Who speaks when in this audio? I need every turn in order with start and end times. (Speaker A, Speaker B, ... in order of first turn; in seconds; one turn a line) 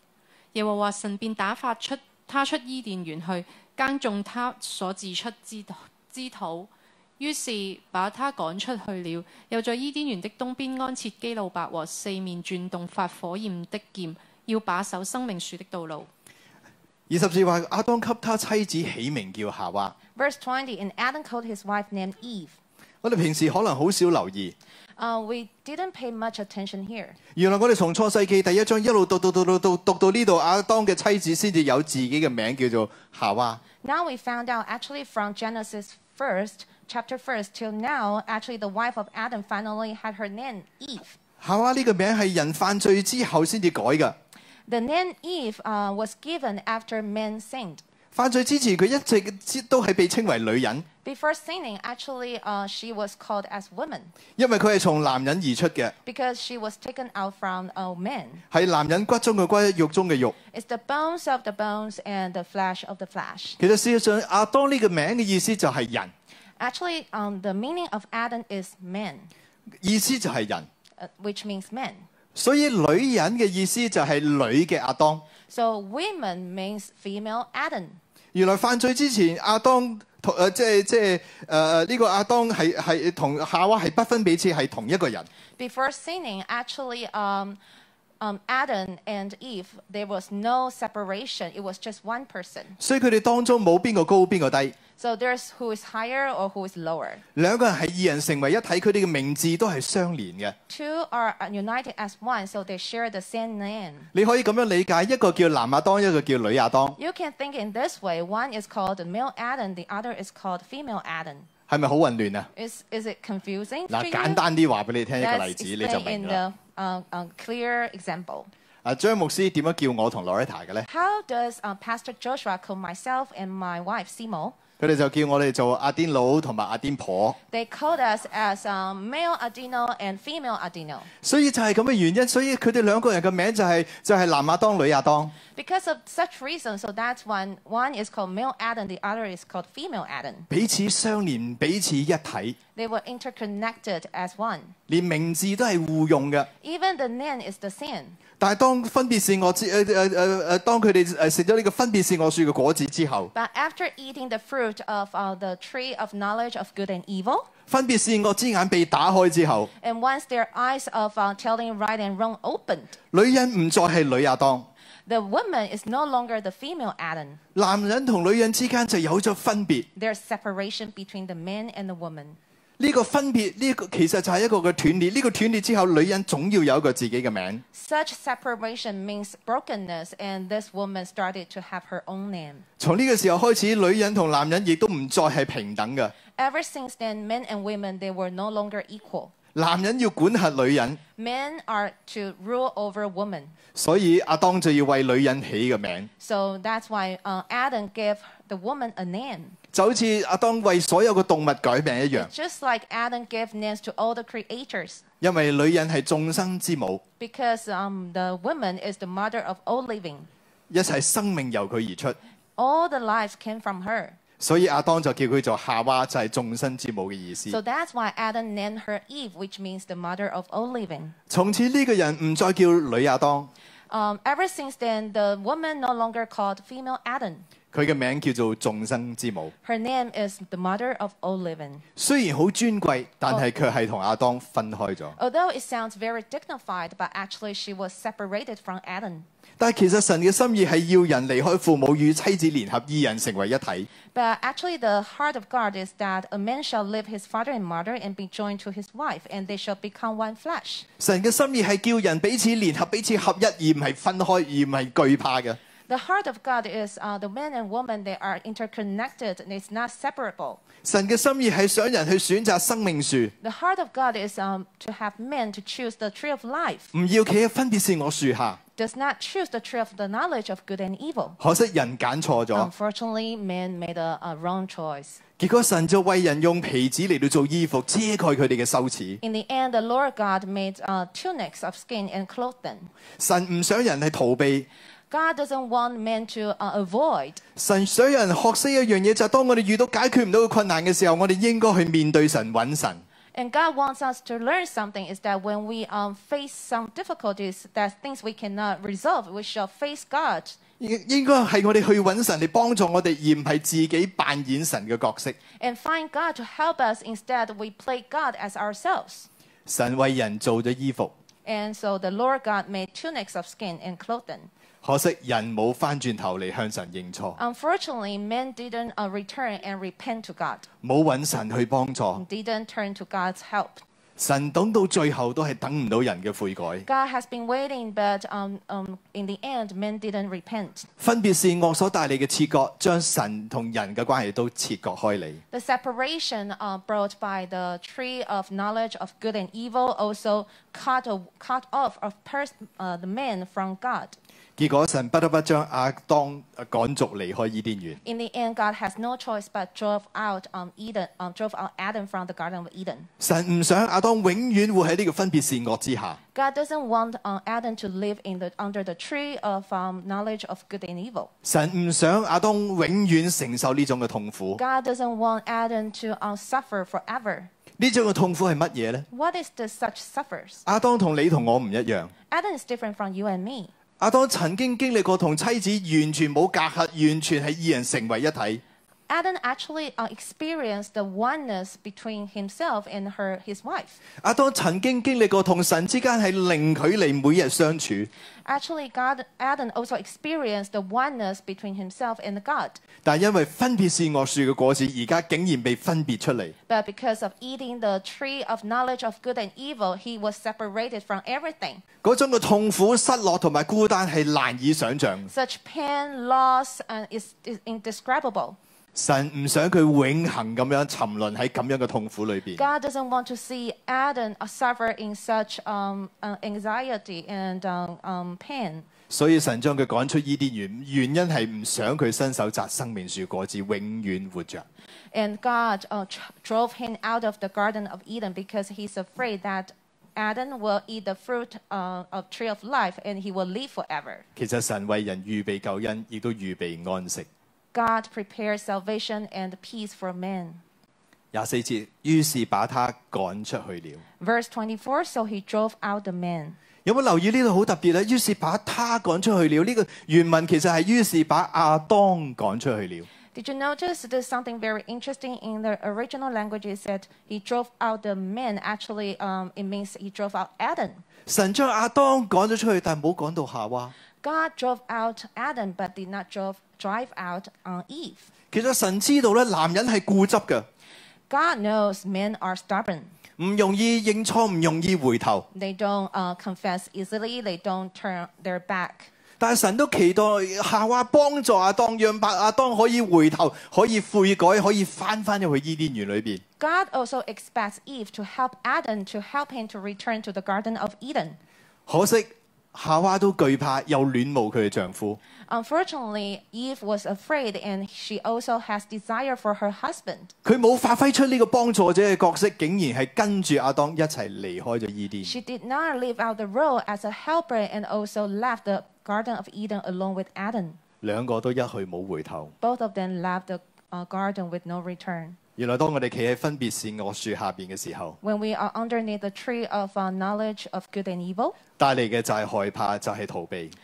Speaker A: 0.5-16.1
Speaker B: 17.1-19.9
Speaker C: 20.1-22.6
Speaker B: 23.0-24.6
Speaker C: 25.0-27.2
Speaker B: 27.4-33.6
Speaker C: 33.8-41.2
Speaker B: 41.4-44.1
Speaker C: 44.7-47.8
Speaker B: 48.1-50.9
Speaker C: 51.0-54.1
Speaker B: 54.4-55.9
Speaker C: 56.0-58.4
Speaker B: 58.5-60.3
Speaker C: 60.5-63.6
Speaker B: 63.6-66.1
Speaker C: 66.6-69.3
Speaker B: 69.8-70.7
Speaker C: 71.0-72.1
Speaker B: 72.3-75.2
Speaker C: 75.5-78.0
Speaker B: 78.3-85.3
Speaker C: 85.6-87.6
Speaker C: 88.2-92.8
Speaker B: 92.8-94.8
Speaker C: 95.0-97.2
Speaker B: 97.4-100.6
Speaker C: 100.7-104.1
Speaker B: 104.1-107.0
Speaker C: 107.0-111.5
Speaker B: 111.7-112.5
Speaker C: 112.5-114.4
Speaker B: 113.9-116.4
Speaker C: 115.2-118.5
Speaker B: 118.8-120.9
Speaker C: 120.9-124.6
Speaker B: 124.8-127.4
Speaker C: 127.5-131.1
Speaker B: 131.2-135.3
Speaker C: 135.5-140.5
Speaker B: 140.5-142.6
Speaker C: 142.8-144.8
Speaker B: 144.9-146.5
Speaker C: 146.6-148.2
Speaker B: 148.4-153.3
Speaker C: 153.3-157.5
Speaker B: 157.7-159.7
Speaker C: 159.8-162.9
Speaker B: 163.1-164.7
Speaker C: 165.1-167.4
Speaker B: 167.6-169.9
Speaker C: 170.0-172.4
Speaker B: 172.8-177.6
Speaker C: 177.7-182.7
Speaker B: 182.8-186.1
Speaker C: 186.3-189.3
Speaker B: 189.6-191.0
Speaker C: 191.2-193.6
Speaker B: 193.8-196.1
Speaker C: 196.2-199.6
Speaker B: 199.7-202.3
Speaker C: 202.1-205.0
Speaker B: 205.2-207.0
Speaker C: 207.2-210.3
Speaker B: 210.7-212.2
Speaker C: 212.6-214.2
Speaker B: 214.4-217.6
Speaker C: 217.5-221.2
Speaker B: 221.3-223.5
Speaker C: 223.9-227.5
Speaker B: 227.7-229.5
Speaker C: 229.6-231.8
Speaker B: 232.0-235.2
Speaker C: 235.2-239.3
Speaker B: 239.6-243.9
Speaker C: 244.1-250.9
Speaker B: 251.0-255.6
Speaker C: 255.9-260.6
Speaker B: 260.8-263.3
Speaker C: 263.4-266.9
Speaker B: 266.9-268.6
Speaker C: 268.8-271.4
Speaker B: 271.4-272.7
Speaker C: 272.5-275.2
Speaker B: 275.4-279.2
Speaker C: 279.2-282.9
Speaker B: 283.2-284.7
Speaker C: 285.1-287.4
Speaker B: 287.6-293.0
Speaker C: 293.4-300.6
Speaker B: 300.8-305.4
Speaker C: 305.6-309.3
Speaker B: 309.7-311.1
Speaker C: 311.4-314.5
Speaker B: 314.8-317.4
Speaker C: 317.4-320.7
Speaker B: 320.8-322.2
Speaker C: 322.2-323.8
Speaker B: 324.2-326.9
Speaker C: 326.9-330.9
Speaker B: 331.0-335.4
Speaker C: 335.5-344.2
Speaker B: 344.6-348.0
Speaker C: 348.0-353.1
Speaker B: 353.2-356.2
Speaker C: 356.3-361.3
Speaker B: 361.4-364.6
Speaker C: 364.6-367.5
Speaker B: 367.8-369.1
Speaker C: 369.1-370.6
Speaker B: 370.7-372.1
Speaker C: 372.3-373.7
Speaker B: 374.0-378.6
Speaker C: 379.1-384.0
Speaker B: 384.2-388.1
Speaker C: 388.5-392.8
Speaker B: 393.0-396.6
Speaker C: 396.7-401.8
Speaker B: 402.0-405.3
Speaker C: 405.3-408.6
Speaker B: 408.9-412.7
Speaker C: 412.6-418.9
Speaker B: 419.1-424.6
Speaker C: 425.1-434.2
Speaker B: 434.4-437.3
Speaker C: 437.7-440.6
Speaker B: 441.3-444.0
Speaker C: 444.2-446.6
Speaker B: 446.9-453.1
Speaker C: 453.3-461.0
Speaker B: 461.3-463.9
Speaker C: 464.2-468.3
Speaker B: 468.5-470.7
Speaker C: 471.3-473.1
Speaker B: 473.4-475.5
Speaker C: 475.5-479.1
Speaker B: 479.4-486.4
Speaker C: 486.6-491.4
Speaker B: 491.9-495.2
Speaker C: 495.5-500.3
Speaker B: 500.4-505.4
Speaker C: 505.2-510.8
Speaker B: 511.0-512.5
Speaker C: 512.6-515.4
Speaker B: 515.6-518.2
Speaker C: 518.2-521.6
Speaker B: 521.8-523.8